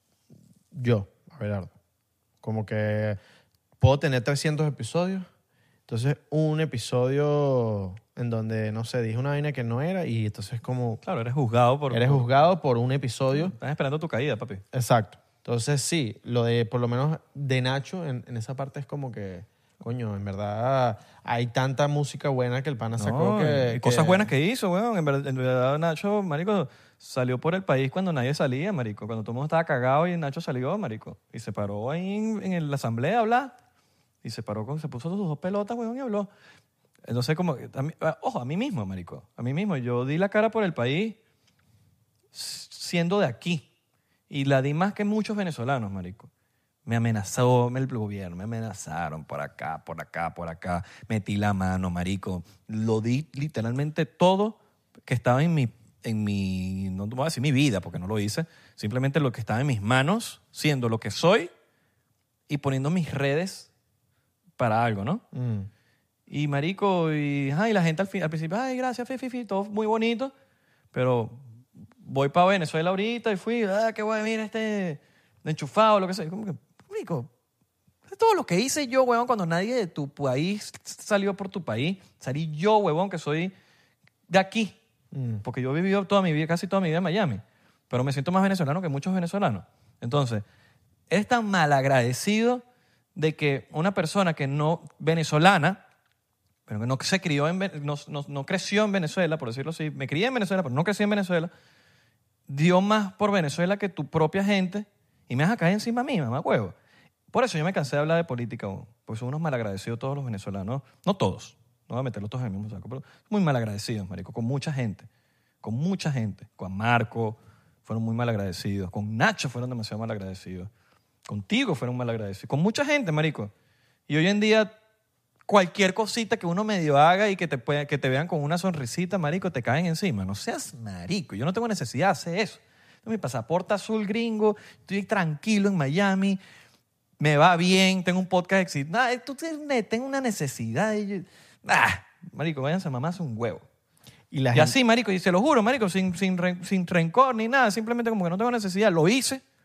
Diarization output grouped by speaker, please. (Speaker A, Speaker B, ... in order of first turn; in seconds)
Speaker A: 0.7-1.7, 2.4-3.2, 3.8-5.3, 5.9-11.0, 11.9-13.5, 14.7-24.3, 65.3-65.7, 85.1-85.4, 144.3-144.8
Speaker B: 11.0-12.3, 13.3-14.6, 22.9-33.5, 34.2-36.3, 37.0-41.2, 42.3-43.6, 44.3-46.3, 46.9-61.5, 62.5-63.7, 64.6-65.2, 66.3-70.3, 70.9-71.4, 72.0-77.3, 78.1-83.5, 84.3-84.8, 85.4-90.4, 91.1-92.6, 93.1-95.8, 96.7-101.5, 102.5-106.7, 107.3-115.1, 115.6-120.7, 121.2-123.5, 124.1-124.7, 125.5-136.4, 137.2-143.7, 144.5-149.4